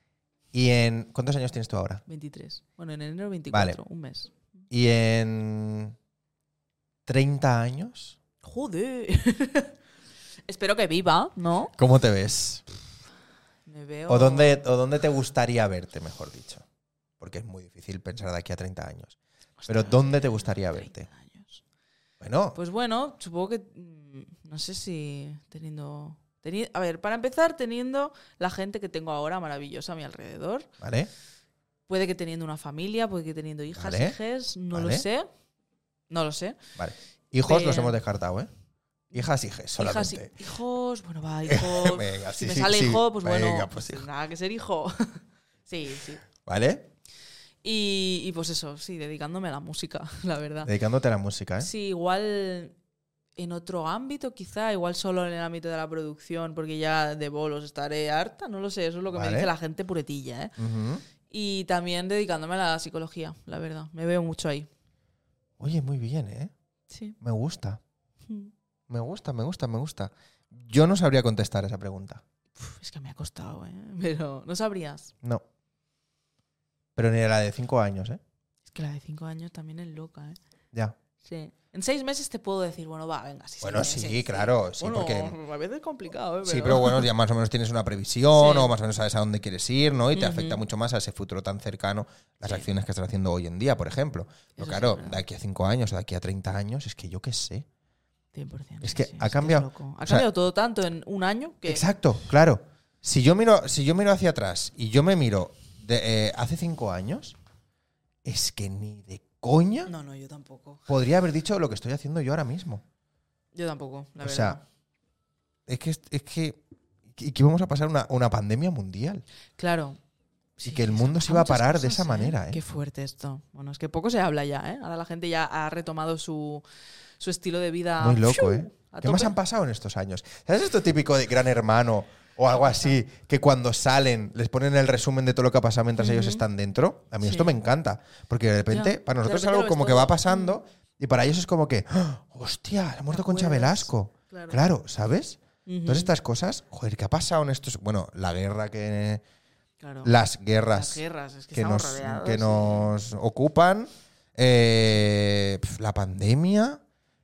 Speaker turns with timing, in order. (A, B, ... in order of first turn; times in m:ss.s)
0:00.5-0:02.0 A
0:02.1-0:04.4 B
0:03.5-0:03.8 A
0:04.7-0:06.0 A
0:07.1-0:08.2 A
0:08.4-0:09.8 B
0:10.5-0:11.7 B
0:11.8-0:12.6 A
0:13.7-0:14.6 B
0:14.1-0:16.6 A
0:17.2-0:21.1 A
0:19.6-0:21.6 B
0:22.2-0:22.6 A
0:22.5-0:30.7 B
0:30.8-0:31.1 A
0:31.9-0:35.3 B
0:33.8-0:34.2 A
0:34.7-0:35.1 A
0:36.1-0:36.6 B
0:36.8-0:38.5 A
0:37.4-0:38.0 B
0:39.1-0:46.2 B
0:39.1-0:40.3 A
0:41.5-0:44.0 A
0:46.4-0:46.9 A
0:47.6-0:50.7 B
0:50.6-0:51.7 A
0:51.6-0:52.8 B
0:53.4-1:00.5 B
0:59.1-0:59.5 A
1:00.6-1:01.0 A
1:01.2-1:04.7 B
1:05.6-1:06.5 A
1:06.9-1:07.2 B
1:07.2-1:07.8 A
1:08.9-1:12.2 A
1:12.6-1:15.1 B
1:17.0-1:18.2 A
1:18.6-1:20.4 B
1:21.2-1:27.1 B
1:23.6-1:25.4 A
1:26.4-1:37.7 A
1:28.3-1:28.7 B
1:30.1-1:30.6 B
1:34.6-1:35.2 B
1:38.3-1:41.9 B
1:38.8-1:40.3 A
1:41.6-1:47.4 A
1:48.2-1:49.9 A
1:49.9-1:50.9 B
1:50.9-1:52.8 A
1:53.5-1:54.6 B
1:54.2-1:54.6 A
1:55.7-1:56.6 A
1:57.1-1:59.2 A
1:59.6-2:00.0 B
2:00.6-2:06.6 B
2:00.6-2:02.6 A
2:07.2-2:09.4 B
2:08.0-2:29.2 A
2:12.5-2:13.0 B
2:16.0-2:16.4 B
2:17.2-2:17.6 B
2:18.7-2:20.6 B
2:23.1-2:24.6 B
2:25.7-2:26.1 B
2:29.8-2:30.1 B
2:30.0-2:31.0 A
2:30.7-2:33.0 B
2:31.5-2:36.8 A